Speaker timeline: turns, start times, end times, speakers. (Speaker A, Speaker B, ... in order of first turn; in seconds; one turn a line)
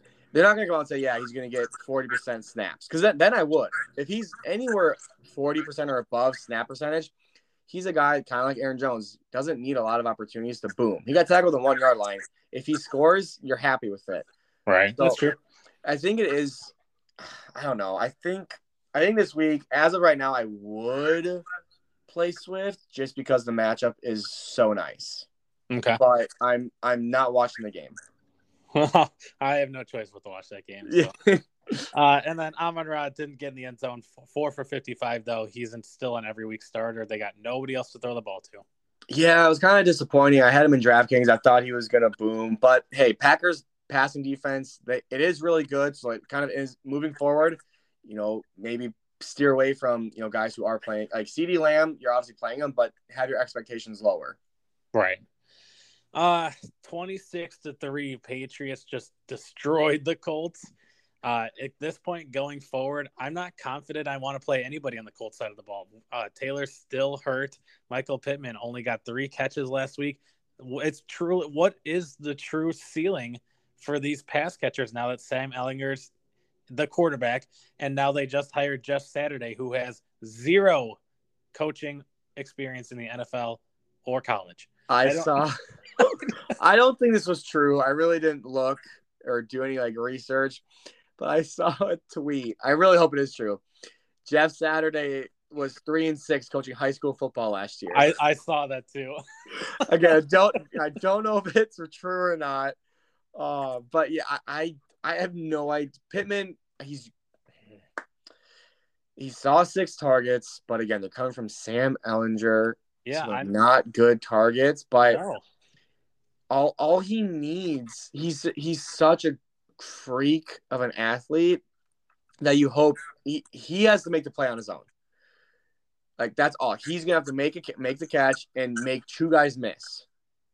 Speaker A: 0.3-7.1
Speaker A: 7.7-14.3
Speaker B: 14.7-15.4
Speaker A: 15.8-21.4
Speaker A: 22.1-25.3
Speaker B: 25.7-26.0
Speaker A: 26.0-27.9
Speaker B: 28.8-31.1
Speaker A: 30.9-31.9
Speaker B: 31.9-38.6
Speaker A: 39.1-54.4
Speaker B: 54.9-55.2
Speaker B: 56.1-60.7
Speaker B: 61.2-76.1
Speaker B: 76.7-81.0
Speaker B: 81.5-85.4
Speaker A: 84.9-90.7
Speaker B: 86.0-86.4
Speaker A: 91.2-93.6
Speaker A: 94.2-98.1
Speaker B: 97.9-99.7
Speaker A: 99.9-102.8
Speaker A: 103.3-107.1
Speaker A: 109.2-115.2
Speaker B: 113.0-113.5
Speaker B: 115.0-115.4
Speaker A: 116.5-121.6
Speaker A: 122.4-124.9
Speaker A: 126.2-130.1